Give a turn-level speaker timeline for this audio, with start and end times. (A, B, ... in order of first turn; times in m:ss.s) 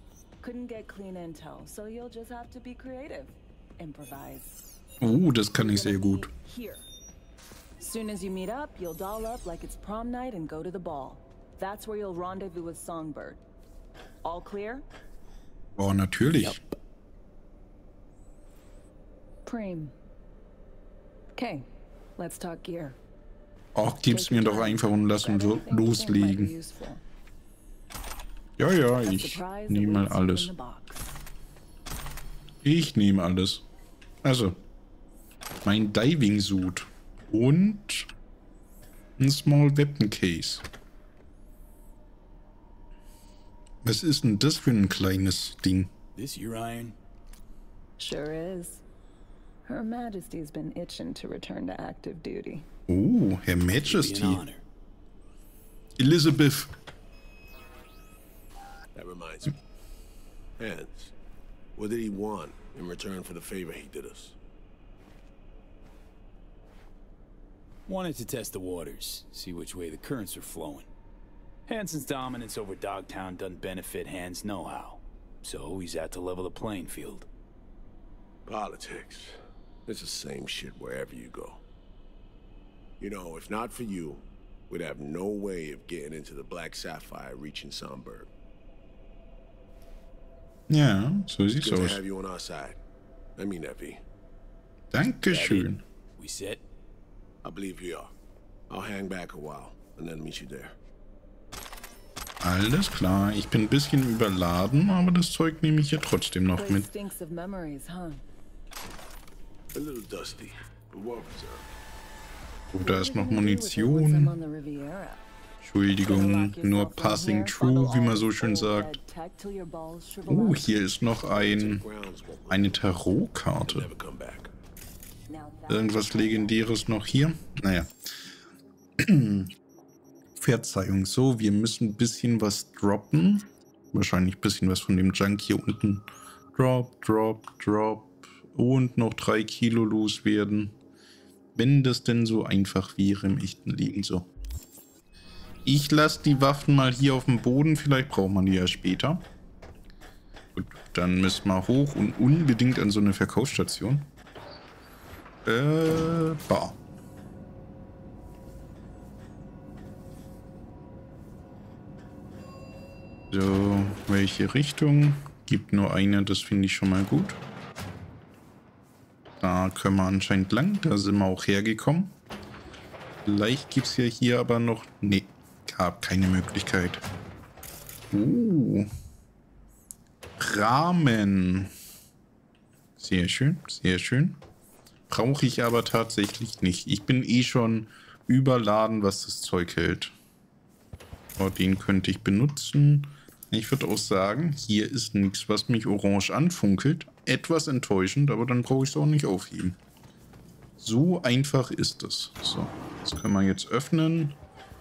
0:00.4-0:04.6 A
0:05.0-0:06.3 B
0:05.6-0:06.9 A
0:07.8-0:13.4 A
0:14.2-0:14.8 A
0:15.8-0:16.6 B
0:19.4-0:19.9 A
0:21.4-0:23.0 A
0:23.8-0:26.5 B
0:24.0-0:27.0 A
0:28.6-0:30.5 B
0:29.0-0:31.2 A
0:32.6-0:33.6 B
0:34.2-0:34.6 B
0:35.6-0:38.1 B
0:39.2-0:40.6 B
0:43.8-0:45.9 B
0:46.2-0:47.0 C
0:48.0-0:48.8 A
0:49.7-0:52.7 A
0:52.9-0:54.4 B
0:53.8-0:54.6 C
0:56.0-0:56.7 B
0:59.0-0:59.6 D
1:00.6-1:01.1 D
1:01.8-1:04.4 D
1:07.9-1:10.9 C
1:11.7-1:17.3 C
1:18.5-1:21.6 D
1:23.0-1:28.3 D
1:30.7-1:32.0 B
1:31.6-1:32.8 D
1:33.4-1:34.0 D
1:34.9-1:35.8 B
1:35.3-1:36.6 C
1:37.4-1:38.1 D
1:38.7-1:40.8 D
1:42.4-1:46.9 B
1:46.5-1:48.2 A
1:49.7-1:51.7 D
1:52.7-1:54.3 B
1:52.8-1:55.2 A
1:55.6-1:58.9 B
1:56.0-2:00.7 A
2:00.3-2:01.8 B
2:01.2-2:04.5 D
2:02.5-2:03.9 B
2:05.3-2:06.7 A
2:05.7-2:07.9 B
2:09.0-2:09.5 B
2:10.4-2:20.8 B
2:21.6-2:24.3 B
2:25.6-2:29.2 B
2:30.6-2:34.1 B
2:35.4-2:36.8 B
2:43.3-2:47.4 B
2:49.4-2:52.1 B
2:53.2-2:57.0 B
2:58.1-2:58.9 B
3:00.4-3:01.7 B
3:03.0-3:04.4 B
3:05.1-3:10.1 B
3:11.4-3:19.8 B
3:20.8-3:24.4 B